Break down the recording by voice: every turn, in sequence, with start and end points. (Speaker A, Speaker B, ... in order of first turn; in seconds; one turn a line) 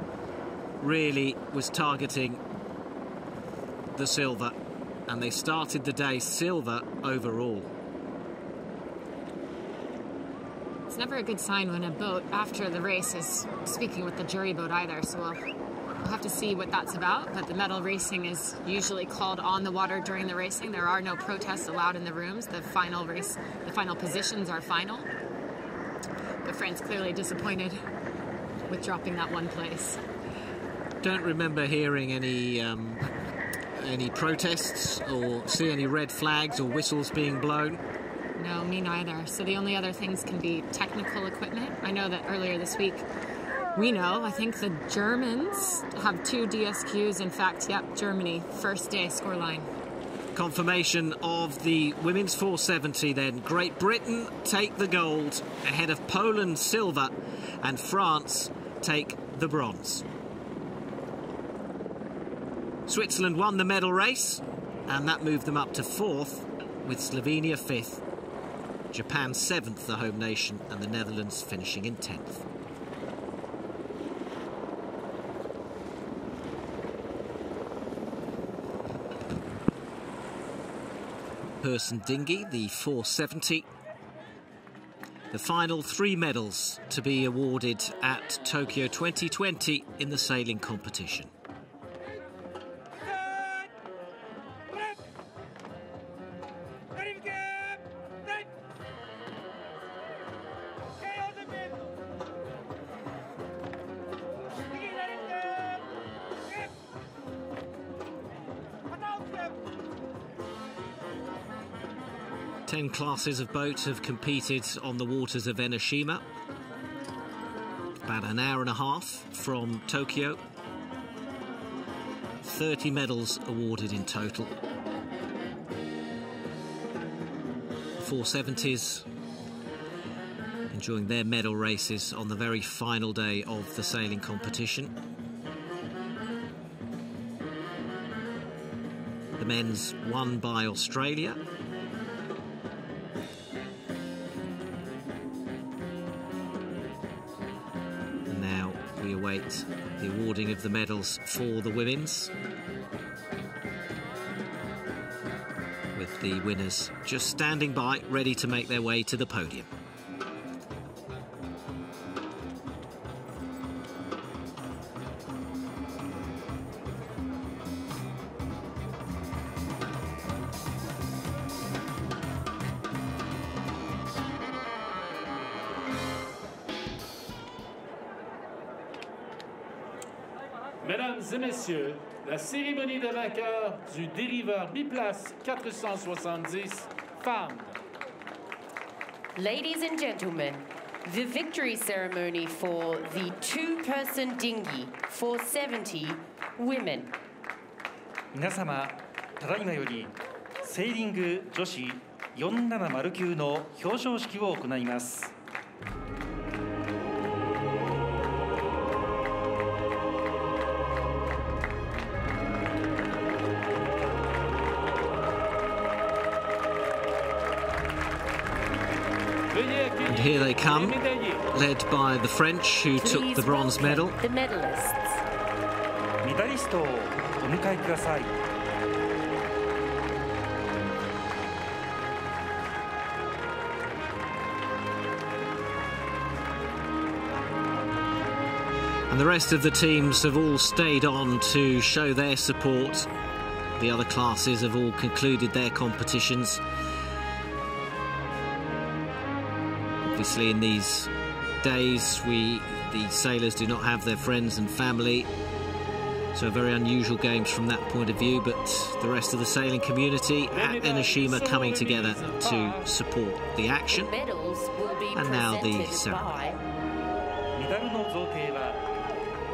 Speaker A: 0.8-2.4
Speaker A: 4.0-4.6
Speaker A: 5.1-7.7
Speaker B: 10.9-15.4
Speaker B: 16.0-25.1
Speaker B: 26.4-27.8
Speaker B: 28.7-30.0
Speaker A: 31.0-33.2
Speaker A: 33.7-37.8
Speaker B: 38.4-43.1
Speaker B: 43.8-49.7
Speaker A: 50.4-60.0
Speaker A: 62.9-68.0
Speaker A: 68.9-72.5
Speaker A: 81.6-83.7
Speaker A: 85.3-91.3
Speaker A: 112.7-116.2
Speaker A: 118.0-120.4
Speaker A: 122.4-124.5
Speaker A: 128.0-129.1
Speaker A: 130.7-134.9
Speaker A: 139.4-141.4
Speaker A: 148.3-152.3
Speaker A: 155.9-159.7
Speaker C: 180.8-187.8
Speaker D: 189.3-197.2
Speaker E: 198.3-205.3
Speaker C: 219.5-221.5
Speaker A: 220.1-224.2
Speaker D: 222.9-225.2
Speaker E: 226.2-228.4
Speaker A: 239.1-243.1
Speaker A: 243.8-246.6
Speaker A: 250.1-255.3
Speaker A: 256.3-264.1
Speaker C: 260.5-262.9
Speaker D: 263.9-266.6
Speaker A: 265.1-266.3
Speaker E: 267.6-268.9